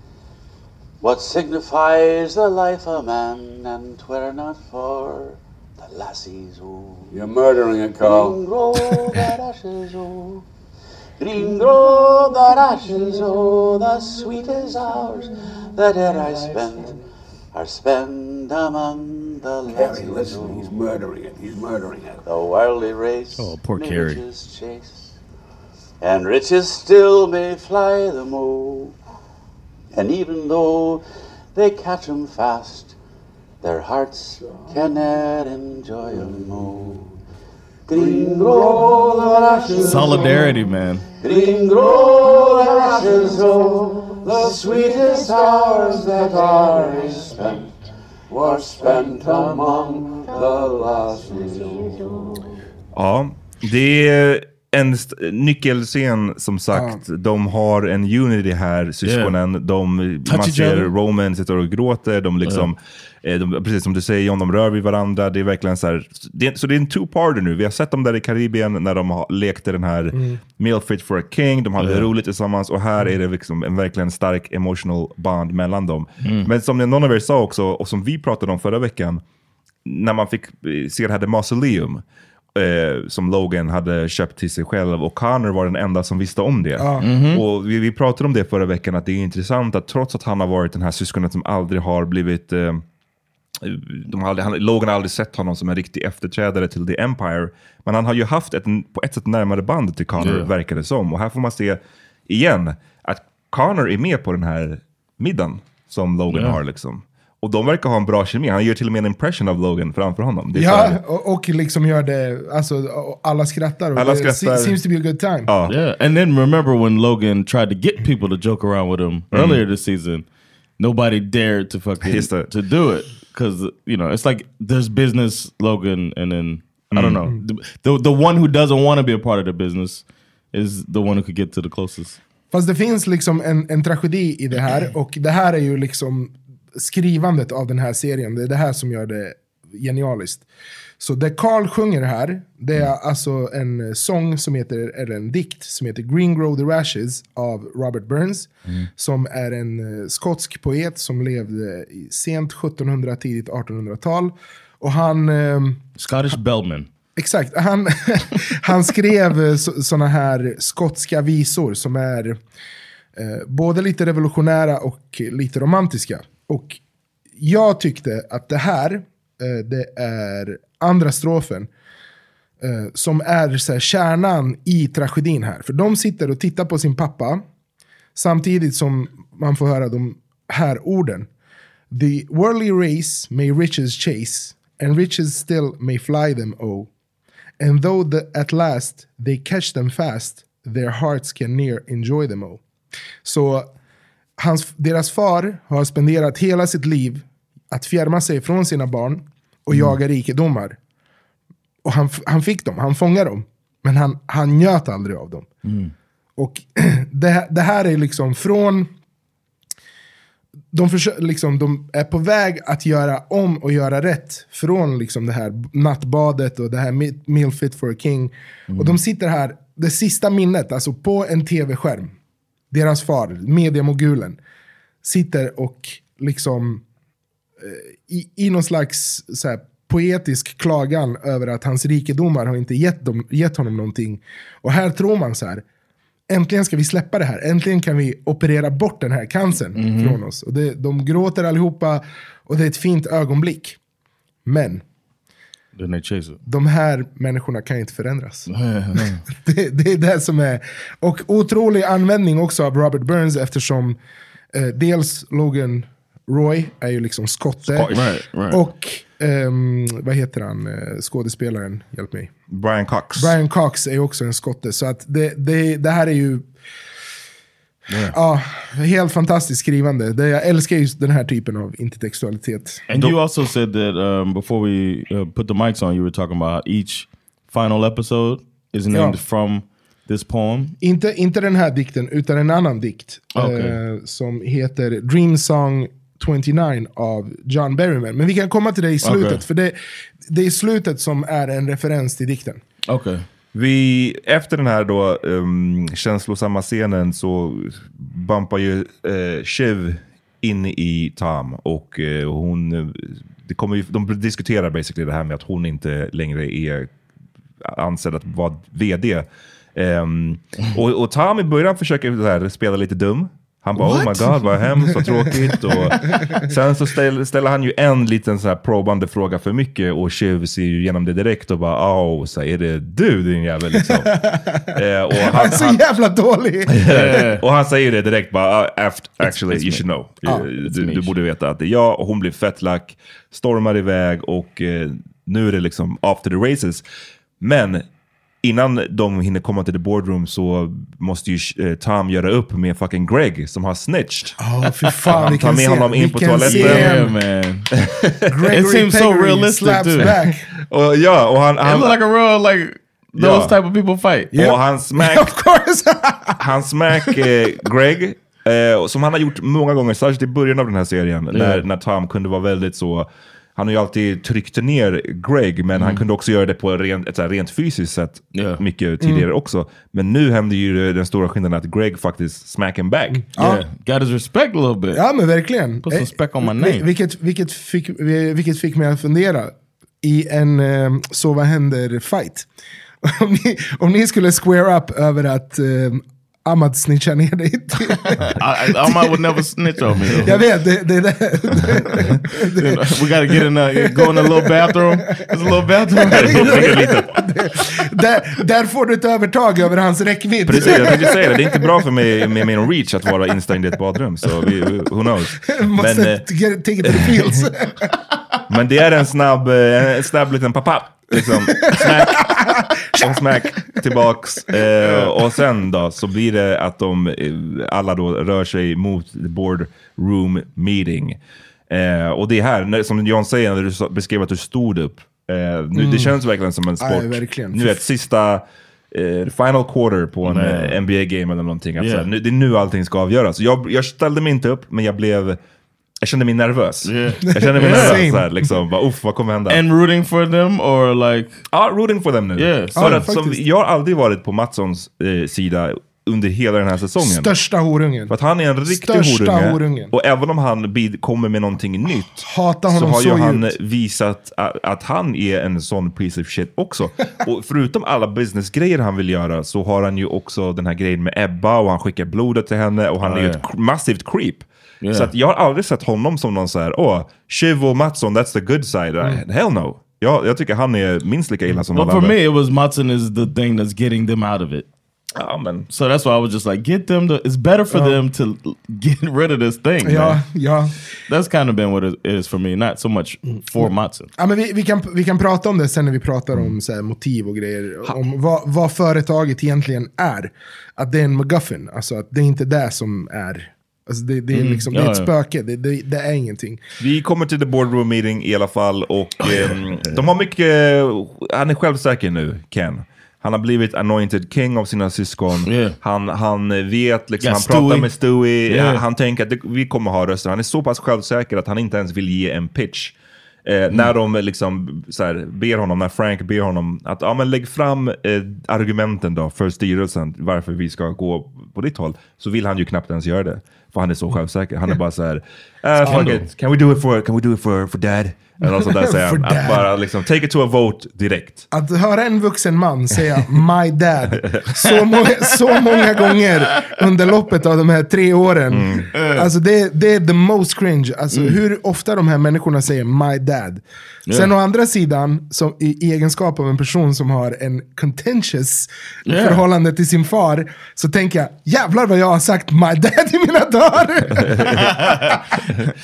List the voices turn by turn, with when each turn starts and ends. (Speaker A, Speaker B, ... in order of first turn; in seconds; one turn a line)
Speaker A: 1.0-10.4
Speaker B: 7.1-8.4
Speaker A: 11.2-17.0
Speaker A: 17.5-20.8
Speaker B: 19.7-22.2
Speaker A: 22.2-25.2
Speaker C: 23.4-24.2
Speaker A: 26.0-29.0
Speaker A: 29.9-31.0
Speaker A: 31.6-33.0
Speaker A: 33.6-37.2
Speaker A: 37.9-40.5
Speaker C: 39.8-41.0
Speaker A: 41.2-47.8
Speaker A: 48.3-52.4
Speaker D: 53.0-79.2
Speaker E: 56.7-57.0
Speaker C: 59.0-59.3
Speaker C: 60.3-60.9
Speaker E: 70.1-70.4
Speaker C: 71.8-72.1
Speaker C: 76.2-76.5
Speaker D: 79.9-82.0
Speaker D: 82.5-92.8
Speaker E: 86.8-87.1
Speaker C: 87.0-87.4
Speaker D: 93.6-111.0
Speaker C: 100.2-100.5
Speaker C: 106.3-106.6
Speaker E: 110.5-115.5
Speaker D: 114.0-114.8
Speaker D: 115.5-115.8
Speaker C: 115.7-120.2
Speaker D: 119.3-119.6
Speaker C: 120.8-132.2
Speaker D: 122.0-122.5
Speaker D: 126.9-127.3
Speaker E: 132.5-140.5
Speaker E: 141.0-155.9
Speaker C: 156.0-156.9
Speaker E: 157.2-162.4
Speaker E: 163.2-166.8
Speaker E: 167.4-171.7
Speaker E: 172.6-177.4
Speaker E: 178.2-181.3
Speaker E: 181.9-186.9
Speaker E: 187.6-192.6
Speaker E: 193.2-193.7
Speaker E: 194.4-200.8
Speaker E: 201.8-205.5
Speaker C: 205.6-205.9
Speaker E: 206.4-208.9
Speaker E: 210.7-222.1
Speaker C: 218.7-219.0
Speaker E: 222.7-224.4
Speaker E: 225.0-226.8
Speaker E: 227.6-235.6
Speaker E: 236.3-243.8
Speaker C: 239.8-240.2
Speaker E: 244.4-244.8
Speaker C: 245.8-246.4
Speaker E: 246.4-248.5
Speaker C: 248.5-249.2
Speaker E: 249.3-254.0
Speaker E: 254.5-262.3
Speaker D: 257.7-258.1
Speaker C: 257.9-258.6
Speaker D: 262.5-263.3
Speaker E: 263.2-266.5
Speaker C: 267.9-268.2
Speaker E: 268.1-272.8
Speaker C: 272.9-280.8
Speaker D: 272.9-273.2
Speaker E: 278.9-279.2
Speaker E: 280.8-289.8
Speaker C: 283.4-283.8
Speaker C: 289.0-289.4
Speaker E: 290.3-292.6
Speaker C: 292.9-293.3
Speaker D: 293.5-306.9
Speaker D: 307.6-324.2
Speaker C: 313.9-314.2
Speaker C: 315.7-316.1
Speaker E: 316.0-316.4
Speaker E: 323.8-324.7
Speaker D: 324.7-325.8
Speaker E: 325.2-326.8
Speaker D: 326.7-336.8
Speaker C: 326.9-327.4
Speaker C: 329.2-331.1
Speaker D: 337.4-337.9
Speaker D: 338.4-344.4
Speaker E: 344.4-347.1
Speaker D: 345.1-347.0
Speaker C: 346.4-347.7
Speaker D: 347.8-348.2
Speaker E: 348.3-350.5
Speaker C: 348.5-350.2
Speaker D: 350.6-352.0
Speaker C: 351.6-354.3
Speaker D: 353.2-353.5
Speaker E: 354.3-356.4
Speaker D: 354.3-355.3
Speaker D: 356.4-373.2
Speaker C: 361.3-361.6
Speaker C: 365.8-366.1
Speaker C: 368.4-368.6
Speaker E: 369.0-369.3
Speaker E: 373.1-373.6
Speaker C: 373.4-375.0
Speaker E: 374.9-382.5
Speaker C: 375.9-376.9
Speaker E: 383.0-389.1
Speaker C: 388.1-390.4
Speaker E: 390.1-394.8
Speaker C: 392.6-396.9
Speaker E: 395.9-401.7
Speaker D: 396.1-397.1
Speaker D: 400.5-406.3
Speaker E: 405.5-407.9
Speaker D: 406.8-407.4
Speaker D: 408.5-421.2
Speaker E: 411.2-413.0
Speaker C: 414.8-415.1
Speaker D: 421.7-435.4
Speaker E: 425.8-426.1
Speaker E: 426.8-427.9
Speaker C: 430.2-430.8
Speaker C: 431.8-432.1
Speaker D: 436.0-439.6
Speaker C: 436.9-438.0
Speaker E: 437.4-438.4
Speaker C: 439.5-441.4
Speaker D: 441.5-447.3
Speaker C: 442.4-443.0
Speaker E: 442.8-443.4
Speaker E: 447.0-448.1
Speaker D: 448.1-472.2
Speaker E: 448.7-449.9
Speaker E: 452.2-453.5
Speaker C: 463.0-463.4
Speaker C: 464.8-465.1
Speaker C: 471.7-474.7
Speaker D: 475.2-475.7
Speaker C: 475.7-480.2
Speaker E: 477.7-478.0
Speaker E: 479.8-480.7
Speaker C: 481.1-484.1
Speaker E: 483.6-496.6
Speaker C: 494.3-495.1
Speaker D: 496.8-531.5
Speaker C: 499.2-500.0
Speaker C: 505.4-505.8
Speaker C: 507.2-507.9
Speaker C: 508.5-508.8
Speaker C: 525.8-526.2
Speaker E: 528.7-529.7
Speaker E: 531.5-554.5
Speaker D: 534.1-534.6
Speaker D: 538.5-538.9
Speaker C: 538.9-539.3
Speaker C: 541.1-541.4
Speaker C: 544.1-544.3
Speaker C: 549.1-549.5
Speaker D: 554.2-554.7
Speaker C: 554.5-555.3